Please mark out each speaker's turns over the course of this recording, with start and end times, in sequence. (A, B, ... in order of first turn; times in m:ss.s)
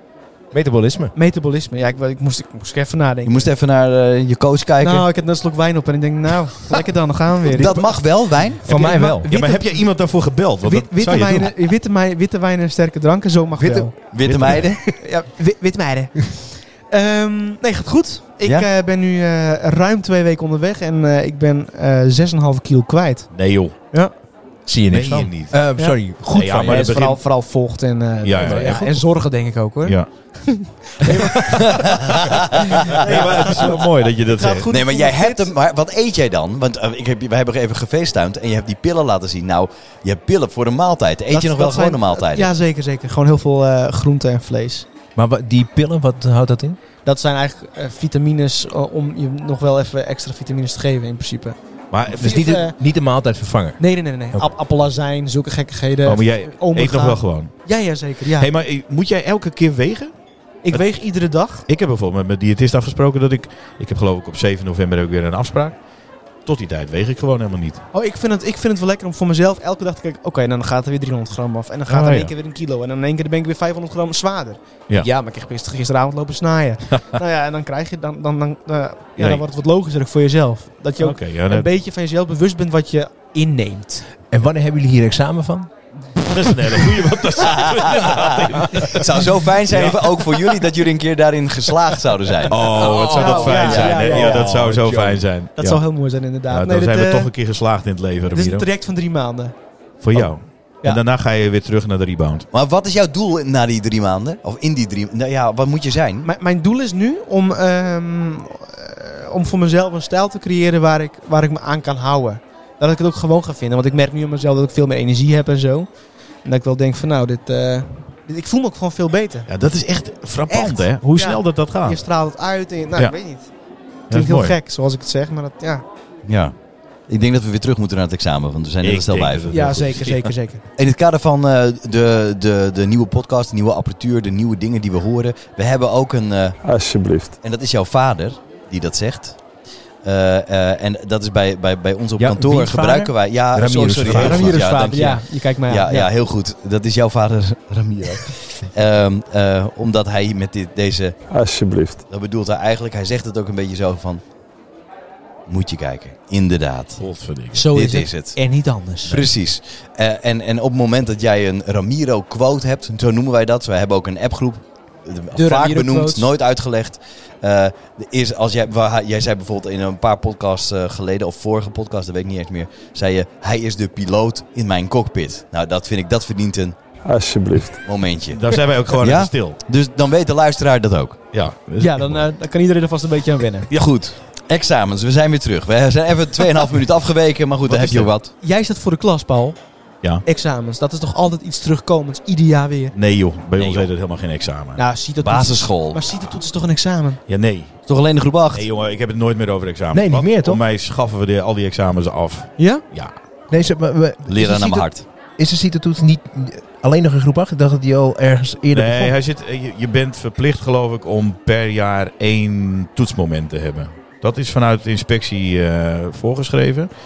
0:00.5-0:01.1 A
0:01.1-0:03.4 B
0:03.2-0:05.0 C
0:04.8-0:07.9 B
0:07.5-0:09.1 C
0:07.6-0:07.9 A
0:08.6-0:09.3 A
0:08.7-0:09.8 B
0:09.3-0:11.5 D
0:10.6-0:13.9 B
0:13.6-0:13.9 A
0:14.0-0:14.8 C
0:14.2-0:14.7 D
0:14.8-0:24.1 B
0:18.4-0:18.7 C
0:23.3-0:23.7 D
0:24.6-0:26.9 A
0:24.9-0:25.6 D
0:26.2-0:27.2 D
0:26.6-0:35.5 B
0:28.2-0:28.9 D
0:28.4-0:29.0 A
0:29.8-0:31.4 D
0:31.7-0:33.0 C
0:32.9-0:34.7 D
0:34.7-0:42.5 C
0:41.3-0:44.8 B
0:45.2-0:46.8 A
0:47.0-0:51.6 B
0:51.9-0:52.4 D
0:52.1-0:52.7 B
0:52.1-0:54.5 A
0:53.8-0:58.5 B
0:56.0-0:57.7 D
0:58.3-1:00.1 D
1:00.6-1:01.6 B
1:01.7-1:05.8 D
1:06.4-1:07.8 D
1:07.9-1:24.0 B
1:11.9-1:12.3 D
1:19.2-1:19.4 D
1:21.0-1:21.7 D
1:24.3-1:25.7 A
1:26.2-1:30.5 D
1:27.4-1:34.4 C
1:32.5-1:35.8 D
1:32.7-1:34.6 B
1:33.8-1:35.2 A
1:35.6-1:37.3 B
1:36.5-1:38.7 D
1:38.3-1:39.5 B
1:40.0-1:42.4 D
1:42.5-1:46.3 C
1:46.2-1:55.9 B
1:56.4-1:59.5 B
1:59.5-2:02.0 D
2:00.5-2:03.5 B
2:04.1-2:04.6 D
2:04.1-2:05.8 B
2:06.2-2:06.5 C
2:07.1-2:09.8 C
2:08.8-2:10.3 D
2:09.5-2:10.6 B
2:10.8-2:16.6 C
2:16.6-2:17.3 E
2:17.4-2:19.4 C
2:20.0-2:31.2 C
2:22.2-2:24.7 A
2:24.1-2:26.1 B
2:31.3-2:32.0 E
2:32.1-2:34.2 C
2:35.5-2:37.0 C
2:37.0-2:37.7 D
2:37.5-2:39.2 B
2:37.7-2:38.4 C
2:39.0-2:56.8 C
2:45.3-2:46.3 B
2:57.0-2:57.8 E
2:57.8-3:01.2 C
2:58.3-2:59.6 D
3:01.3-3:02.2 D
3:01.8-3:03.7 B
3:03.7-3:08.3 C
3:07.7-3:08.1 D
3:08.4-3:09.6 B
3:10.2-3:12.9 B
3:12.9-3:14.8 D
3:13.6-3:13.9 C
3:14.8-3:17.2 B
3:15.2-3:16.2 C
3:17.3-3:17.8 D
3:17.9-3:18.6 C
3:18.5-3:23.1 D
3:19.9-3:20.6 A
3:22.6-3:22.8 B
3:23.5-3:29.1 A
3:24.3-3:25.0 C
3:28.7-3:36.9 D